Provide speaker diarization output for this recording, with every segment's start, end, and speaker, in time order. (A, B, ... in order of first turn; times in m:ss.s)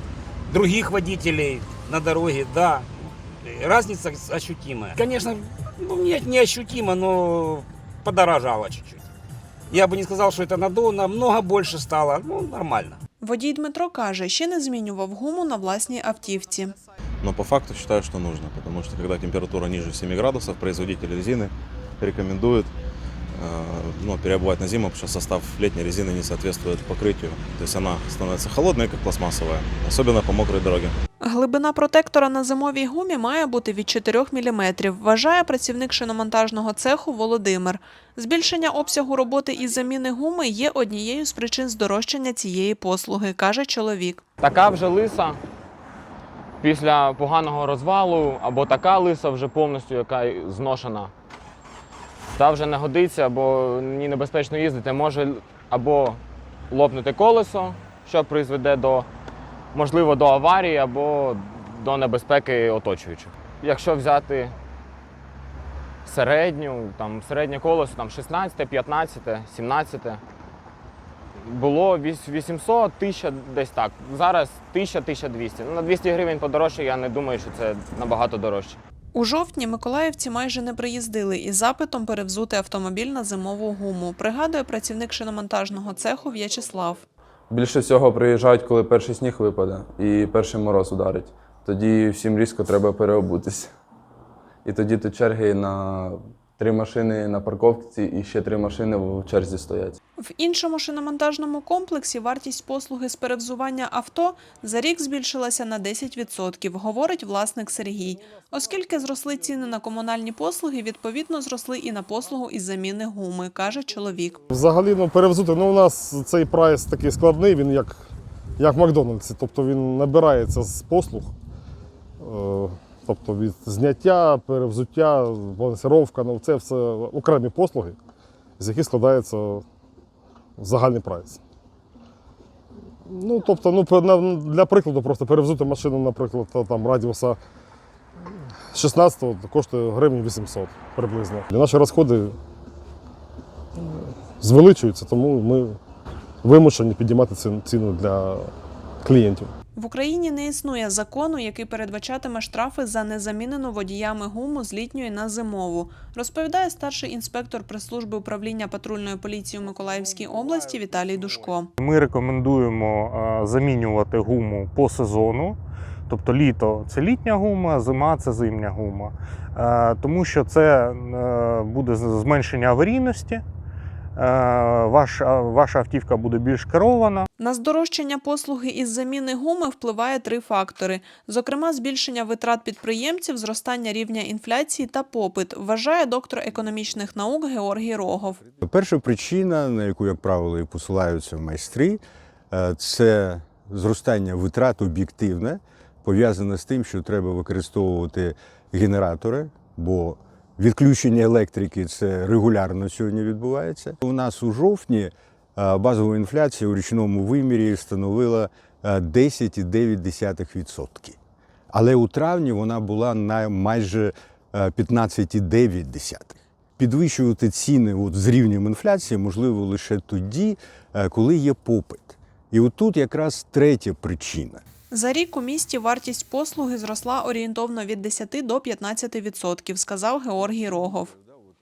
0:00.5-0:02.9 A
0:03.4-0:09.1 A
0:09.7-0:13.0 A
0:13.2-0:16.7 B
0:17.2-0:22.7 C
0:23.4-0:31.0 C
0:31.2-0:44.2 B
0:44.4-0:45.4 D
0:46.6-0:51.1 D
0:52.3-0:59.1 D
0:59.7-1:04.5 D
1:06.0-1:10.2 D
1:11.4-1:18.8 D
1:19.1-1:27.0 B
1:27.5-1:33.7 E
1:34.6-1:40.0 E
1:40.2-1:54.4 B
1:54.5-1:58.0 F
1:58.6-2:01.3 F
2:02.2-2:08.0 F
2:08.6-2:09.6 F
2:10.6-2:11.4 F
2:13.0-2:17.4 F
2:18.7-2:22.3 F
2:23.8-2:25.8 F
2:26.4-2:28.5 F
2:29.0-2:29.5 F
2:29.8-2:41.7 B
2:40.2-2:41.1 G
2:41.8-2:45.6 G
2:46.1-2:53.4 G
2:54.2-2:57.3 G
2:57.4-3:08.4 B
3:08.6-3:31.2 H
3:31.7-3:44.6 H
3:44.9-3:51.2 B